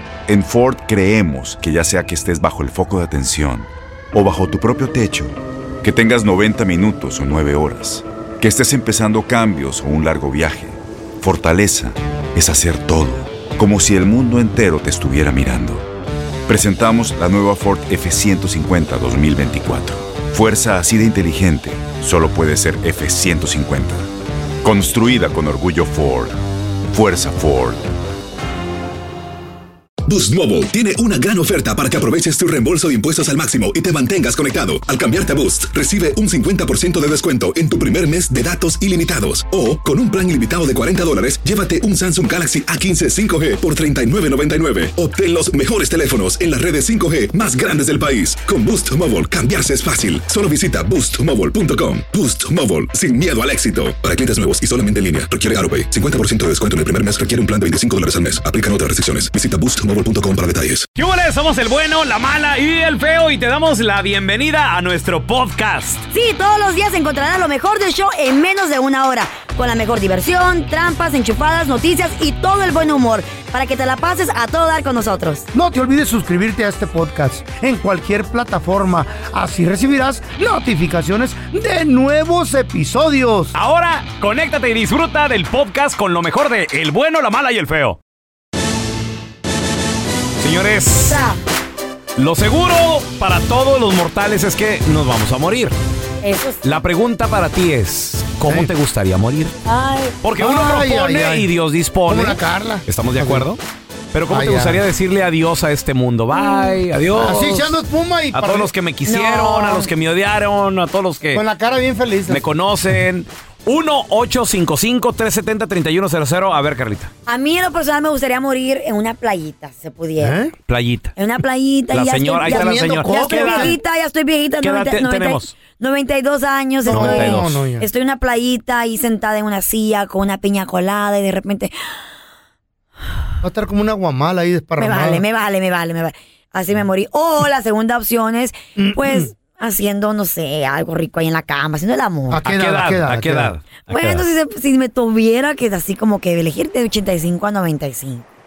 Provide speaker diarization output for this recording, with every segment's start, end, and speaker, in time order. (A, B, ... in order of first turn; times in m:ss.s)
0:00.3-0:15.9 A
0:16.5-0:24.0 A
0:24.6-0:26.4 A
0:26.9-0:27.9 A
0:30.0-1:00.9 B
1:01.0-1:06.1 C
1:06.1-1:15.5 D
1:15.5-1:23.5 E
1:23.5-1:28.0 C
1:30.4-1:31.2 C
1:31.0-1:31.4 D
1:32.2-1:35.8 C
1:36.2-1:36.7 D
1:36.6-1:39.6 C
1:39.7-1:40.2 D
1:40.2-1:43.6 C
1:40.4-1:41.5 E
1:42.1-1:43.5 E
1:44.1-1:47.7 C
1:44.3-1:44.8 E
1:46.3-1:46.6 D
1:47.2-1:48.7 E
1:48.3-1:51.4 C
1:49.0-1:49.9 D
1:51.3-1:52.4 E
1:52.3-1:57.1 C
1:57.3-2:00.4 D
2:00.2-2:00.5 E
2:00.7-2:01.1 C
2:01.2-2:11.7 D
2:01.9-2:03.8 C
2:02.4-2:03.8 E
2:04.6-2:05.6 C
2:06.8-2:07.9 E
2:06.9-2:07.5 C
2:13.4-2:15.2 E
2:14.8-2:22.4 D
2:18.8-2:19.3 E
2:22.3-2:23.5 E
2:22.4-2:24.3 C
2:23.8-2:28.2 D